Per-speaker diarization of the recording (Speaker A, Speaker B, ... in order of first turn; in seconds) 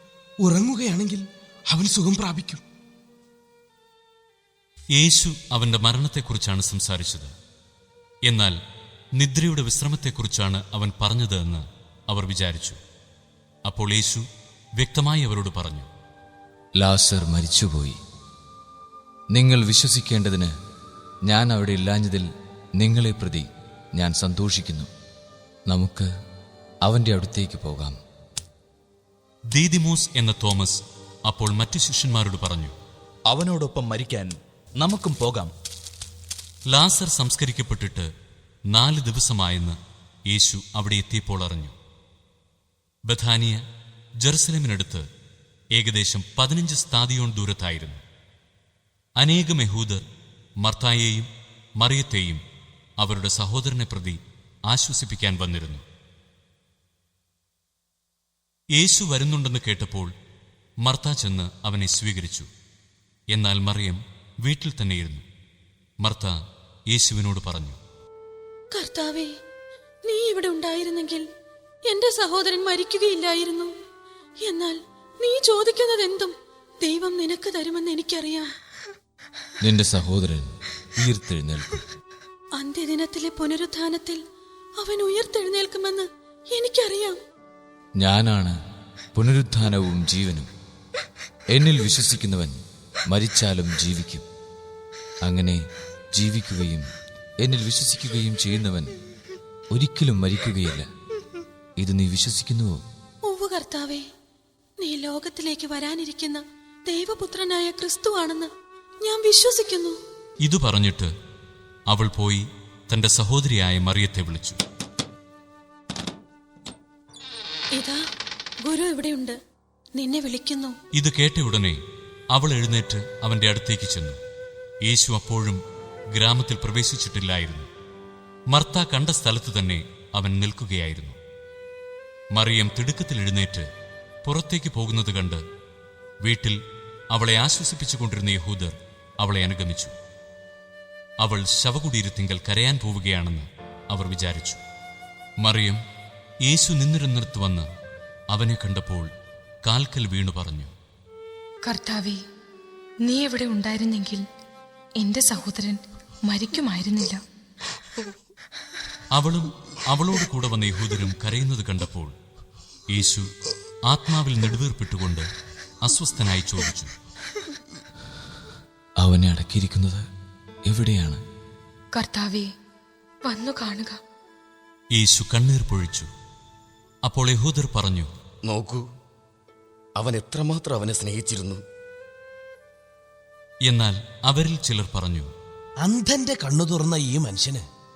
Speaker A: 0.4-2.6, 185.8-187.6
Speaker B: 5.0-7.3, 8.3-8.6, 9.2-12.8, 13.7-14.2, 14.8-15.9, 29.5-32.7, 36.7-38.1, 38.7-39.8, 40.3-41.7, 43.1-43.6, 44.2-45.0, 45.8-48.0, 49.2-50.0, 50.6-51.3, 51.8-52.4, 53.0-55.8, 58.8-60.1, 60.8-62.5, 63.3-65.2, 66.0-66.4, 66.9-67.8, 110.4-111.1, 111.9-114.6, 121.0-121.8, 122.3-124.2, 124.8-125.6, 126.1-127.7, 128.5-131.2, 132.3-133.7, 134.2-135.4, 136.2-136.6, 137.1-139.9, 141.2-144.6, 145.4-145.8, 146.4-147.7, 148.3-149.1, 149.6-150.7, 159.1-162.1, 162.9-163.3, 163.9-165.3, 165.8-166.9, 174.9-176.1, 177.1-178.1, 183.7-185.3
Speaker C: 16.8-18.0, 19.3-20.5, 21.2-24.9, 25.7-26.1, 26.8-28.0, 79.6-81.8, 88.0-88.5, 89.1-90.5, 91.5-94.2, 95.2-95.6, 96.1-96.9, 97.4-98.9, 99.7-100.9, 101.8-102.8, 169.0-170.0, 170.7-171.2
Speaker D: 33.3-35.5
Speaker E: 68.7-69.3, 70.0-71.2, 71.9-73.7, 74.4-78.5, 82.6-84.2, 84.8-87.2, 103.2-104.1, 104.8-108.5, 109.0-110.0, 118.6-119.3, 120.0-120.8
Speaker F: 151.6-152.2, 153.0-154.2, 155.0-157.2, 171.9-172.5, 173.2-174.0
Speaker G: 178.5-178.8, 180.0-181.6